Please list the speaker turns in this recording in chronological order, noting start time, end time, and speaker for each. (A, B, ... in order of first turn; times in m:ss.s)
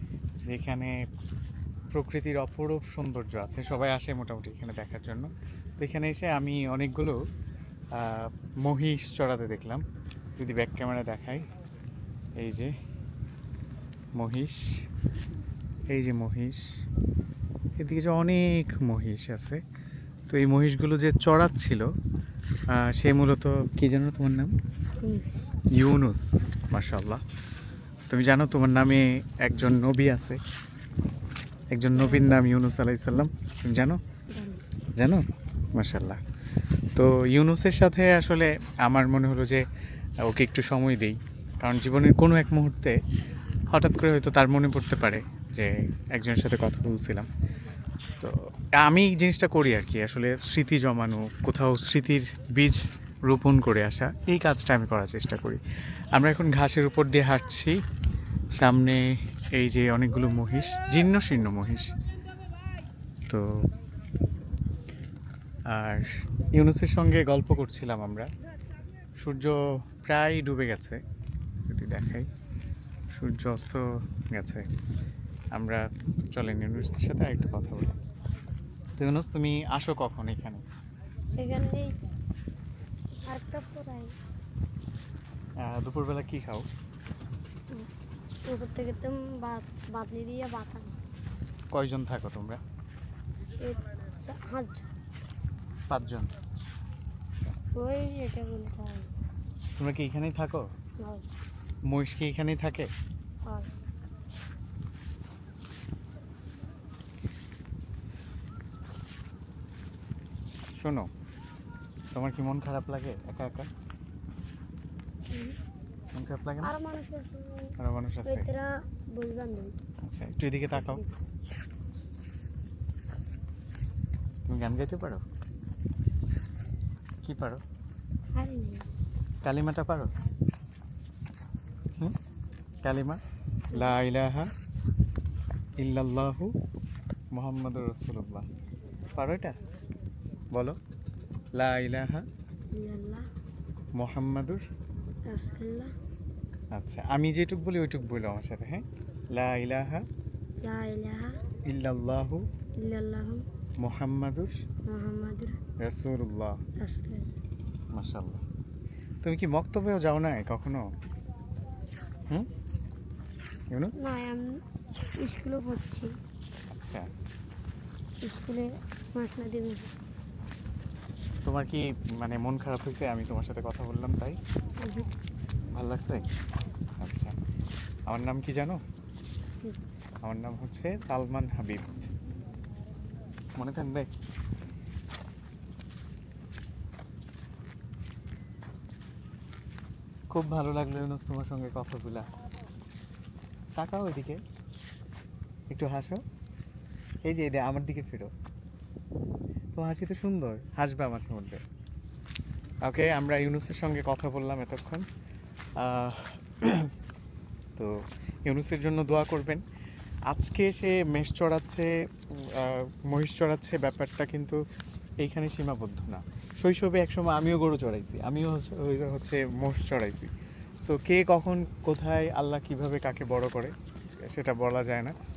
0:00.5-0:01.0 A
0:01.9-0:07.2 A
0:08.0-0:09.8 A
0:10.4-0:11.4 A
0:12.4-0:12.7 A
0:14.2-0:14.7 A
0:15.9-0:16.6 A
0:17.8-0:19.6 A
0:20.3-0:21.9 A
0:22.7-0:24.5 A
0:25.0-0:25.4 B
0:25.8-0:27.2 A
0:28.1-0:30.4 A
0:31.7-0:34.0 A
0:32.0-0:32.3 B
0:34.3-0:34.6 B
0:35.0-0:35.2 A
0:35.8-0:36.2 A
0:37.0-0:39.6 A
0:40.2-0:43.0 A
0:43.7-0:47.3 A
0:48.2-0:55.6 A
0:56.2-0:57.8 A
0:58.6-0:59.0 A
0:59.5-1:02.0 A
1:05.7-1:08.3 A
1:09.2-1:11.0 A
1:11.7-1:12.3 A
1:13.1-1:14.6 A
1:15.6-1:18.0 A
1:19.0-1:20.6 A
1:21.4-1:21.9 B
1:23.3-1:24.1 B
1:25.6-1:26.7 A
1:28.5-1:31.0 B
1:31.7-1:32.6 A
1:33.6-1:34.8 B
1:35.9-1:36.3 A
1:37.3-1:37.6 A
1:37.8-1:39.1 B
1:39.8-1:40.6 A
1:41.9-1:42.9 A
1:50.8-1:51.1 A
1:52.2-1:53.7 A
1:55.3-1:55.6 B
1:56.2-1:56.7 A
1:56.6-1:59.7 B
1:57.8-1:58.5 A
2:00.0-2:01.0 A
2:00.8-2:01.1 B
2:04.5-2:05.2 A
2:07.2-2:07.6 A
2:08.4-2:08.9 B
2:09.4-2:10.1 A
2:12.8-2:13.2 A
2:13.7-2:14.0 B
2:13.7-2:14.5 A
2:15.8-2:16.5 A
2:17.3-2:18.4 A
2:19.2-2:19.6 A
2:21.6-2:22.3 A
2:22.7-2:23.3 B
2:24.0-2:24.6 A
2:25.3-2:25.9 B
2:26.7-2:28.8 A
2:29.4-2:30.2 A
2:30.6-2:31.4 B
2:31.7-2:32.4 A
2:32.8-2:33.4 B
2:33.8-2:34.6 A
2:34.9-2:35.6 B
2:35.8-2:36.6 A
2:36.8-2:37.4 B
2:37.9-2:38.4 A
2:39.2-2:40.8 A
2:43.7-2:44.0 A
2:44.0-2:44.6 B
2:45.2-2:46.1 B
2:46.7-2:47.1 A
2:48.2-2:49.9 B
2:51.4-2:54.4 A
2:54.8-2:55.1 B
2:55.8-2:56.2 A
2:57.0-2:57.4 A
2:58.1-2:58.8 A
3:00.2-3:01.9 A
3:03.6-3:04.1 A
3:10.3-3:12.3 A
3:13.8-3:14.4 A
3:15.7-3:16.2 A
3:17.3-3:18.3 A
3:19.8-3:21.6 A
3:22.9-3:25.1 A
3:25.8-3:26.9 A
3:28.5-3:29.6 A
3:30.3-3:34.6 A
3:35.2-3:40.3 A
3:40.8-3:43.7 A
3:44.2-3:45.1 A